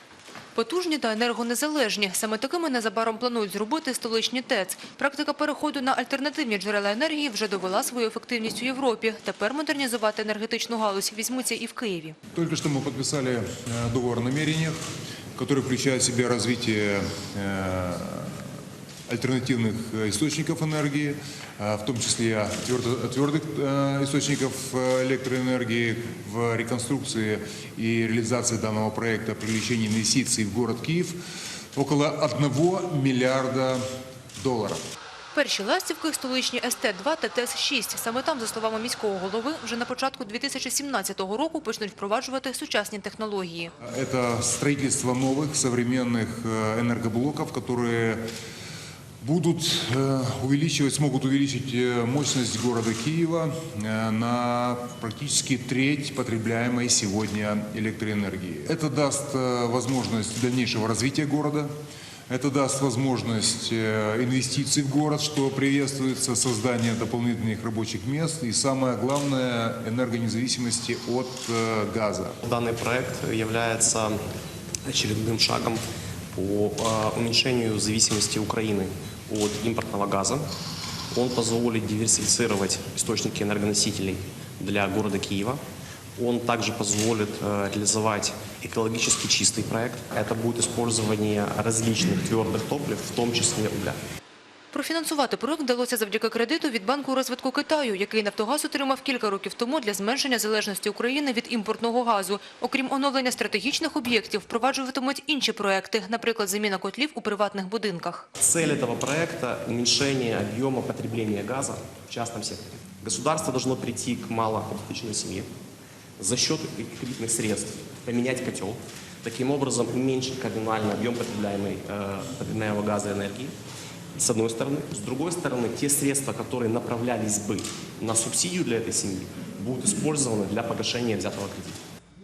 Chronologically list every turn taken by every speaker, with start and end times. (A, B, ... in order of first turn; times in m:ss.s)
0:00.5-0:12.2 A
0:12.3-0:14.8 B
0:15.4-0:18.4 B
0:19.1-0:31.2 B
0:31.7-0:33.8 B
0:34.4-0:34.8 B
0:35.3-0:43.7 A
0:43.8-0:48.2 B
0:49.2-1:01.7 B
1:02.3-1:12.4 B
1:12.4-1:14.2 C
1:14.8-1:15.8 C
1:16.3-1:20.5 C
1:21.1-1:25.6 C
1:26.2-1:34.0 C
1:34.7-1:48.2 A
1:48.4-1:55.5 C
1:56.2-2:03.5 C
2:04.1-2:11.8 C